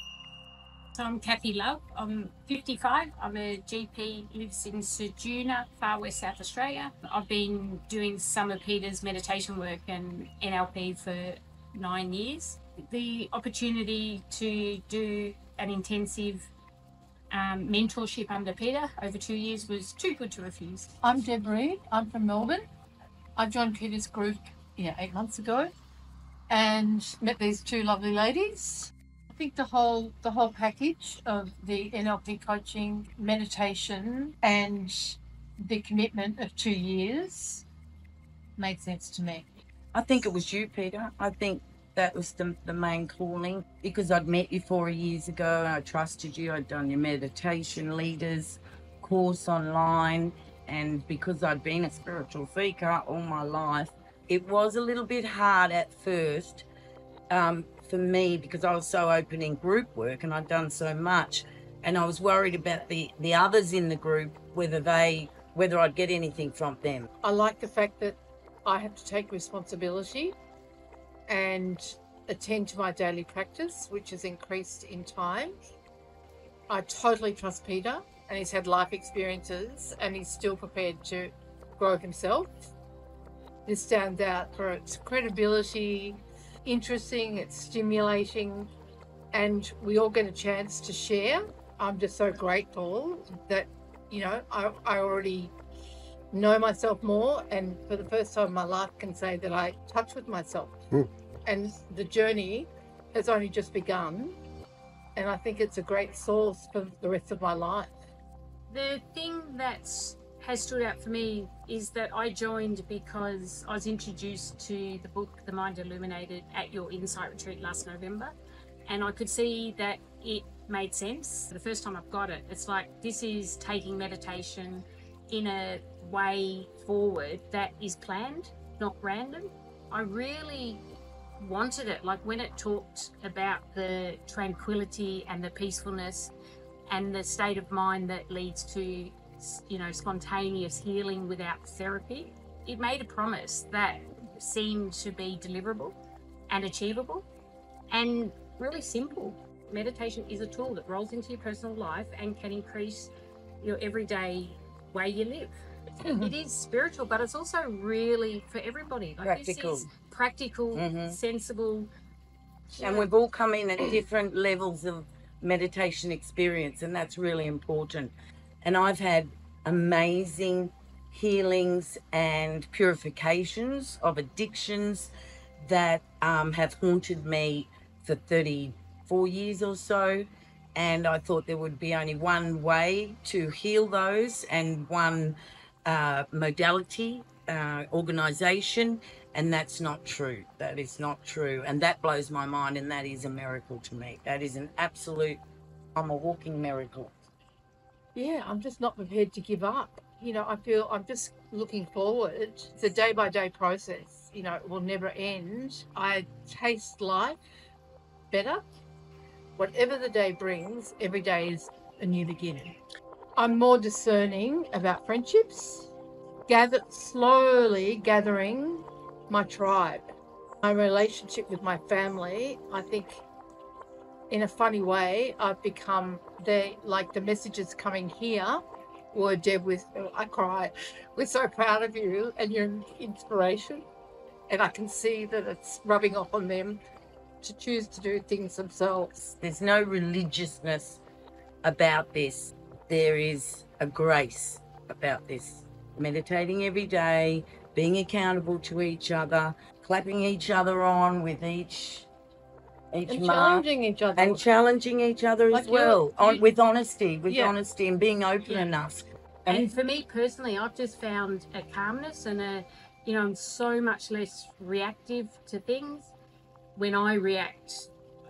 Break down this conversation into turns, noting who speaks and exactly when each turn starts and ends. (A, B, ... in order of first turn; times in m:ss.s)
0:00.9-0:16.5 A
0:17.3-0:20.9 A
0:21.0-0:22.6 B
0:23.4-0:25.7 B
0:26.5-0:37.6 B
0:38.6-0:39.4 B
0:39.9-0:56.7 C
0:57.3-1:07.1 C
1:07.2-1:10.4 B
1:11.3-1:15.6 B
1:16.7-1:22.5 B
1:23.6-1:28.7 B
1:29.3-1:35.5 B
1:36.3-1:40.7 B
1:41.4-1:44.4 B
1:45.2-1:47.9 B
1:48.7-1:58.3 A
1:58.9-2:10.8 A
2:11.4-2:16.3 A
2:16.9-2:26.0 A
2:26.5-2:27.2 A
2:27.9-2:41.9 A
2:39.2-2:39.9 C
2:40.7-2:41.2 C
2:42.8-2:43.1 A
2:42.8-3:15.4 C
3:15.9-3:17.1 C
3:18.1-3:27.4 B
3:28.3-3:28.6 B
3:29.6-3:32.7 B
3:33.4-3:35.9 B
3:36.5-3:40.0 B
3:40.6-3:43.2 B
3:44.3-3:53.8 B
3:54.5-3:56.8 B
3:57.4-3:59.1 B
3:59.2-4:01.0 C
4:01.6-4:12.1 C
4:12.9-4:13.6 C
4:13.1-4:14.4 B
4:14.2-4:19.7 C
4:15.5-4:16.4 B
4:17.3-4:17.5 B
4:18.5-4:18.7 A
4:19.5-4:26.1 A
4:26.7-4:27.9 A